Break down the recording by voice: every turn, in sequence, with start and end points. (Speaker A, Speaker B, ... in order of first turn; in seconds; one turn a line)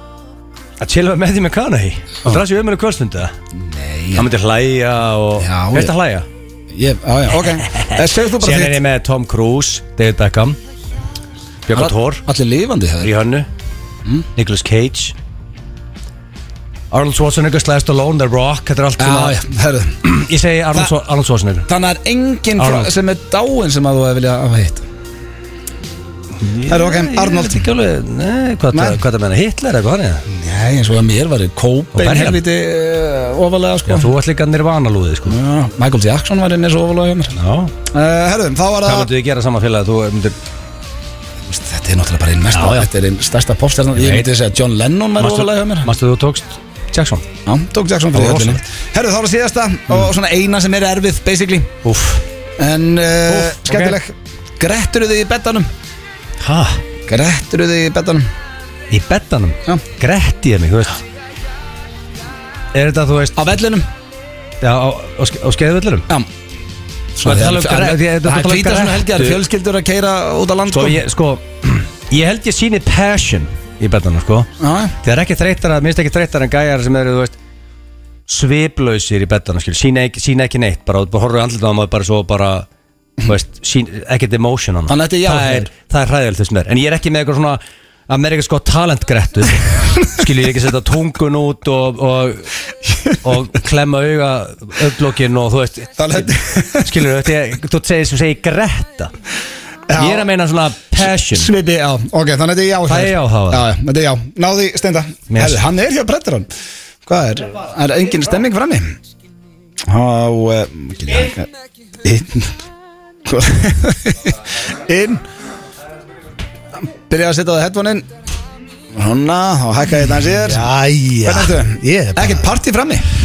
Speaker A: 0.8-3.3
Speaker B: 3.5-4.3
Speaker A: 4.1-6.2
Speaker B: 5.4-5.9
Speaker B: 6.7-8.8
Speaker A: 7.4-10.6
Speaker A: 11.7-12.2
Speaker B: 11.7-13.1
Speaker A: 13.0-13.5
Speaker A: 14.3-15.1
Speaker A: 16.9-19.4
Speaker B: 19.0-20.0
Speaker A: 20.0-21.7
Speaker B: 21.7-24.8
Speaker A: 22.6-22.9
Speaker A: 26.4-30.2
Speaker B: 26.7-27.6
Speaker B: 28.7-29.0
Speaker B: 30.3-34.1
Speaker A: 31.9-32.4
Speaker A: 33.9-35.4
Speaker B: 35.2-39.1
Speaker A: 37.4-37.7
Speaker A: 38.8-40.3
Speaker B: 41.5-45.9
Speaker A: 42.5-42.9
Speaker A: 44.0-44.3
Speaker A: 45.2-47.2
Speaker B: 47.5-51.7
Speaker A: 48.1-48.6
Speaker A: 51.8-52.2
Speaker B: 52.6-55.7
Speaker A: 53.3-54.0
Speaker A: 56.4-56.8
Speaker B: 57.1-58.3
Speaker A: 58.9-61.0
Speaker A: 62.7-63.4
Speaker B: 63.4-63.9
Speaker A: 64.6-66.1
Speaker B: 67.2-71.0
Speaker A: 67.2-69.4
Speaker A: 70.7-74.5
Speaker B: 74.6-75.0
Speaker A: 75.0-77.3
Speaker A: 78.3-82.7
Speaker A: 83.2-92.5
Speaker B: 84.9-85.7
Speaker A: 93.2-99.1
Speaker B: 96.0-96.9
Speaker B: 99.9-100.3
Speaker A: 100.0-101.5
Speaker B: 101.0-106.5
Speaker A: 102.9-103.7
Speaker A: 105.3-105.6
Speaker B: 107.0-109.0
Speaker B: 109.9-111.5
Speaker B: 112.0-112.5
Speaker B: 113.2-115.2
Speaker B: 117.0-118.1
Speaker B: 118.9-120.7
Speaker C: 120.4-122.5
Speaker B: 121.2-123.0